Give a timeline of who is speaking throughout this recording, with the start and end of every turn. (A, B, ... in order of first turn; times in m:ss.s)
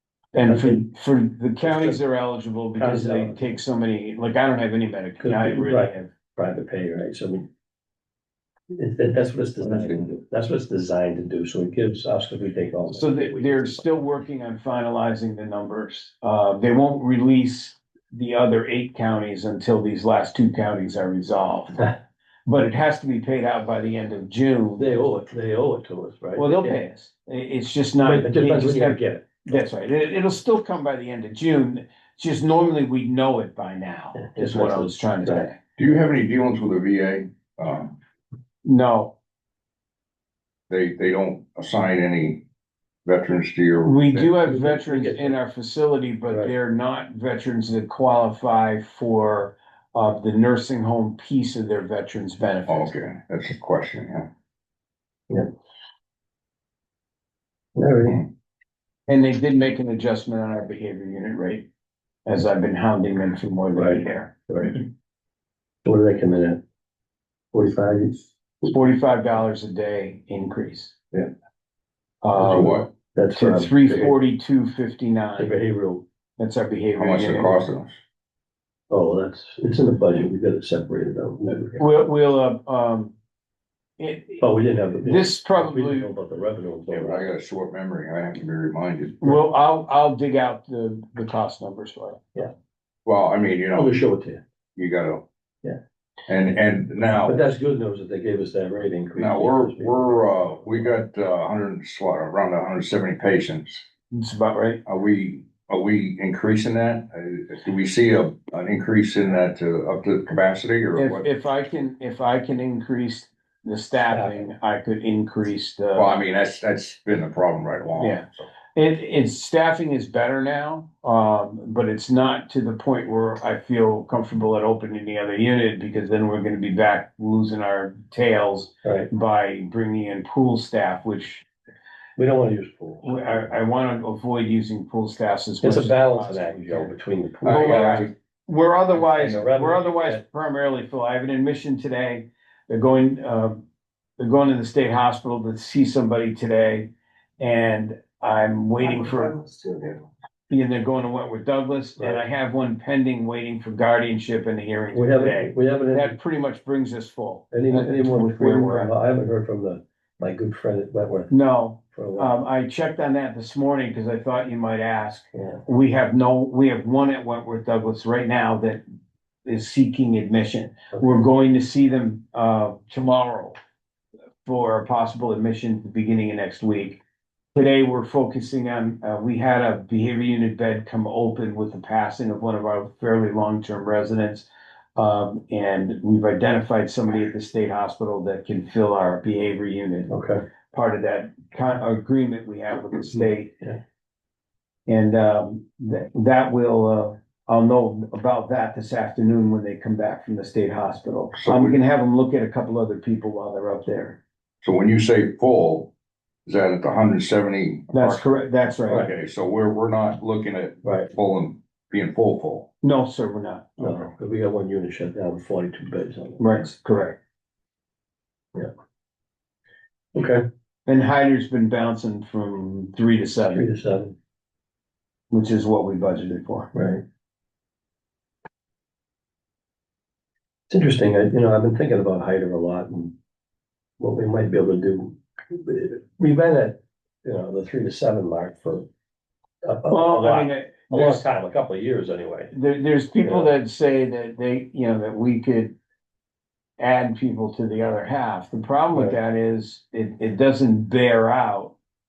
0:00.3-0:06.1 A
0:00.4-0:00.9 B
0:01.6-0:02.0 B
0:02.8-0:03.6 B
0:05.2-0:07.5 B
0:08.7-0:13.9 B
0:09.6-0:10.1 C
0:12.9-0:21.9 A
0:22.5-0:25.0 A
0:24.8-0:26.8 B
0:26.4-0:35.6 A
0:28.0-0:29.3 B
0:34.2-0:35.5 B
0:35.8-0:38.0 C
0:38.6-0:39.1 A
0:40.7-0:42.4 C
0:43.0-0:44.3 C
0:43.8-0:52.9 A
0:44.5-0:45.4 B
0:52.7-0:54.3 C
0:57.8-0:58.2 B
0:59.1-1:01.7 A
1:02.3-1:04.3 A
1:03.8-1:04.8 B
1:05.8-1:06.6 B
1:07.5-1:08.3 B
1:08.6-1:11.0 A
1:12.2-1:15.5 A
1:12.4-1:12.9 C
1:13.1-1:14.1 B
1:15.4-1:16.0 B
1:16.4-1:17.6 A
1:17.0-1:18.0 C
1:18.9-1:21.9 B
1:21.8-1:23.1 A
1:24.0-1:24.4 A
1:24.4-1:27.3 B
1:25.0-1:26.1 A
1:26.9-1:29.4 C
1:29.2-1:32.2 A
1:33.0-1:33.9 C
1:33.7-1:34.4 B
1:34.8-1:35.2 C
1:36.3-1:37.4 C
1:37.2-1:40.0 B
1:39.2-1:43.8 C
1:44.1-1:44.8 A
1:44.9-1:51.3 C
1:51.0-1:56.1 A
1:54.1-1:54.5 B
1:55.9-1:58.5 C
1:58.0-2:11.4 A
2:08.8-2:09.1 B
2:12.2-2:13.5 B
2:13.0-2:16.9 A
2:15.6-2:18.1 B
2:17.4-2:18.1 C
2:17.4-2:23.6 A
2:18.9-2:20.2 B
2:24.2-2:29.4 A
2:28.8-2:30.0 B
2:30.5-2:38.9 A
2:32.0-2:32.2 B
2:34.9-2:36.2 B
2:37.5-2:41.3 B
2:41.3-2:48.8 A
2:41.9-2:42.4 B
2:45.3-2:45.6 B
2:49.4-2:53.6 A
2:50.9-2:51.2 B
2:54.4-2:57.0 A
2:57.6-3:10.1 A
3:10.1-3:10.4 B
3:10.7-3:13.6 A
3:14.9-3:24.2 A
3:21.3-3:21.8 C
3:24.6-3:25.9 C
3:26.5-3:28.3 C
3:27.9-3:29.1 A
3:28.9-3:32.7 C
3:30.8-3:31.1 B
3:32.8-3:33.8 A
3:33.8-3:36.6 B
3:33.8-3:34.1 C
3:36.4-3:37.2 A
3:40.1-3:40.4 B
3:40.9-3:43.7 A
3:43.5-3:44.2 B
3:45.3-3:46.7 A
3:46.7-3:47.0 B
3:50.7-3:53.2 B
3:54.0-3:58.9 B
3:59.6-4:02.5 B
3:59.9-4:01.2 A
4:02.5-4:05.7 A
4:03.2-4:03.5 B
4:06.8-4:11.8 A